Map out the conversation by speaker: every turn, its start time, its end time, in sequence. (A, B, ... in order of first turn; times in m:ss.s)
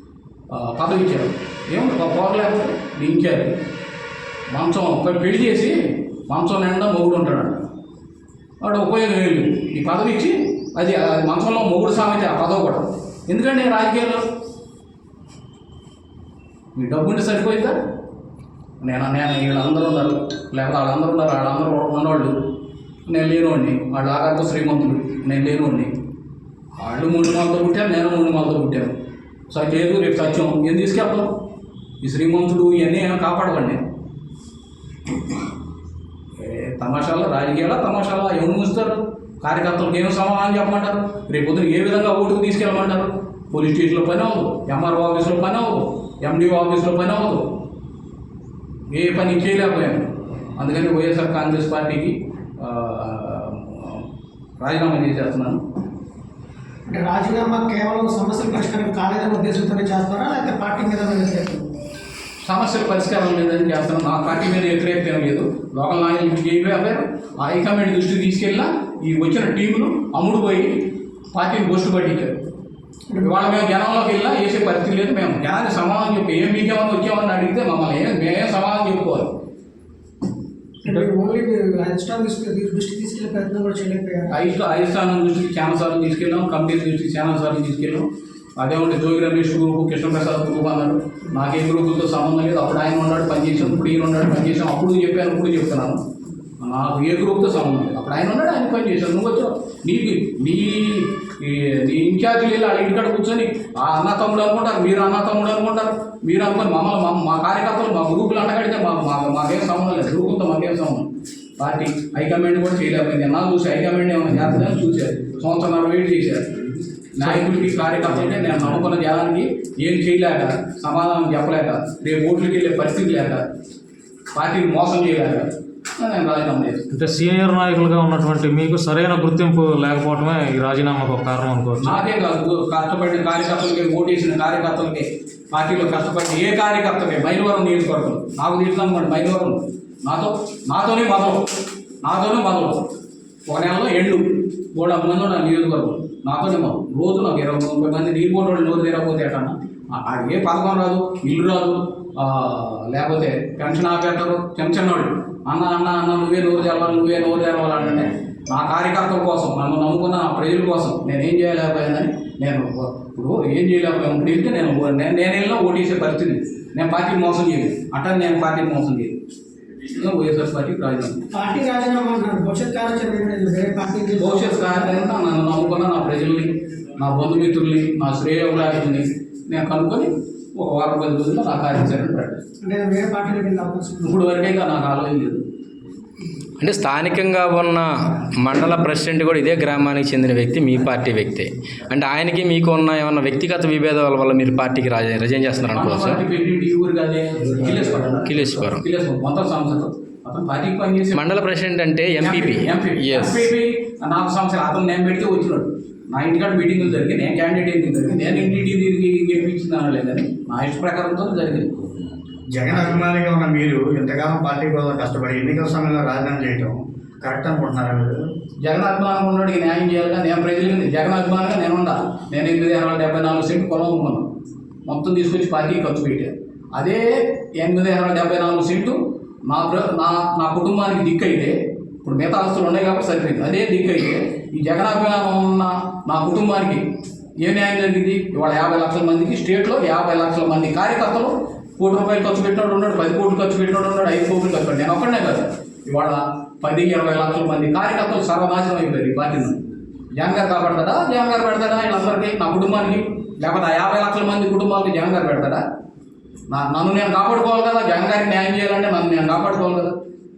0:00.5-0:03.6 A
0:04.5-0:07.6 A
0:08.6-0:14.2 A
0:16.8-0:17.8 A
0:18.8-0:22.4 A
0:23.1-0:25.9 A
0:26.8-0:29.0 A
0:29.5-0:31.4 A
0:32.0-0:33.8 A
0:36.4-0:47.5 A
0:48.9-0:54.0 A
0:54.6-0:55.6 A
0:56.9-1:01.7 B
1:02.4-1:12.4 A
1:13.2-1:19.3 A
1:20.8-1:24.4 B
1:24.3-1:36.0 A
1:36.6-1:51.1 A
1:51.6-1:56.6 A
1:57.1-2:03.5 A
2:04.3-2:06.9 A
2:06.9-2:12.0 C
2:11.8-2:21.5 A
2:22.0-2:22.9 A
2:23.5-2:49.2 A
2:49.9-2:51.3 A
2:51.3-2:54.7 B
2:54.2-3:02.4 A
3:02.6-3:04.2 B
3:04.0-3:05.4 A
3:06.6-3:16.2 D
3:15.7-3:21.4 A
3:18.2-3:18.8 D
3:21.1-3:23.5 D
3:22.2-3:31.9 A
3:32.5-3:38.2 E
3:38.6-3:44.3 A
3:44.9-3:56.8 A
3:57.4-4:09.6 A
4:10.1-4:15.6 A
4:16.5-4:20.0 A